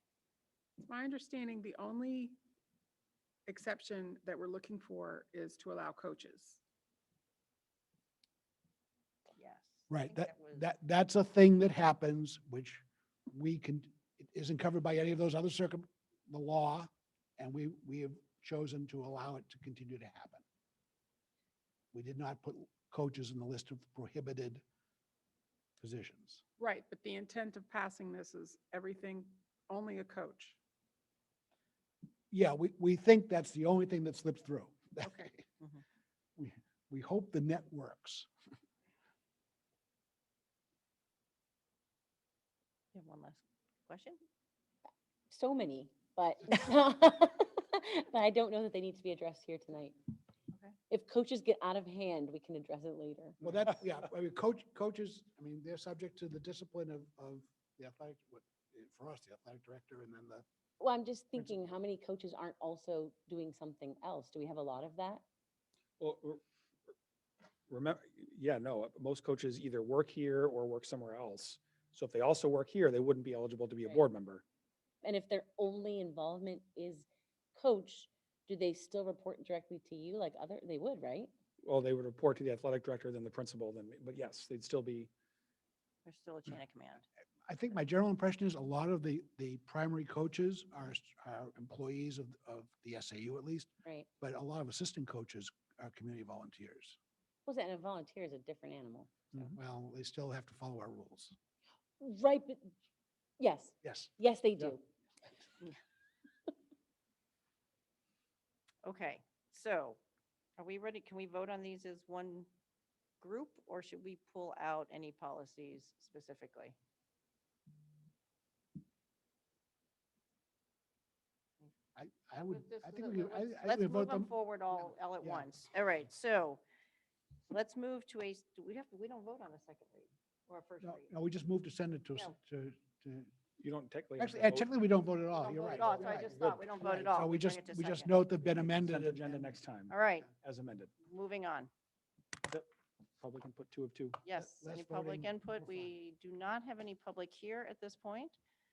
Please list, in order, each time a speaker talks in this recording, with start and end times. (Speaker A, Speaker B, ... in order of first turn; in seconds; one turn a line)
Speaker A: 0.8-2.4
Speaker A: 3.5-6.6
Speaker B: 9.3-10.6
Speaker C: 9.9-20.4
Speaker C: 21.9-24.6
Speaker C: 25.8-26.4
Speaker A: 26.6-30.6
Speaker C: 32.3-35.4
Speaker A: 35.0-35.3
Speaker C: 36.4-38.3
Speaker B: 42.9-44.2
Speaker D: 45.3-49.9
Speaker D: 50.9-53.4
Speaker C: 53.4-60.4
Speaker D: 60.8-65.2
Speaker E: 66.0-66.4
Speaker E: 67.7-74.4
Speaker D: 75.0-81.3
Speaker E: 81.6-85.1
Speaker B: 86.0-87.0
Speaker C: 87.5-97.0
Speaker D: 97.5-99.1
Speaker C: 99.4-101.3
Speaker D: 102.0-102.7
Speaker D: 103.4-104.8
Speaker C: 103.8-104.7
Speaker B: 108.8-110.0
Speaker B: 110.6-112.5
Speaker B: 113.2-116.8
Speaker C: 122.0-125.5
Speaker B: 122.5-126.6
Speaker B: 127.5-131.1
Speaker C: 130.8-133.3
Speaker E: 133.6-134.7
Speaker C: 134.2-139.4
Speaker B: 135.3-138.2
Speaker E: 135.8-136.7
Speaker E: 138.6-140.9
Speaker B: 139.9-140.3
Speaker B: 141.0-141.7
Speaker E: 143.2-144.2
Speaker B: 144.2-148.4
Speaker C: 144.3-145.9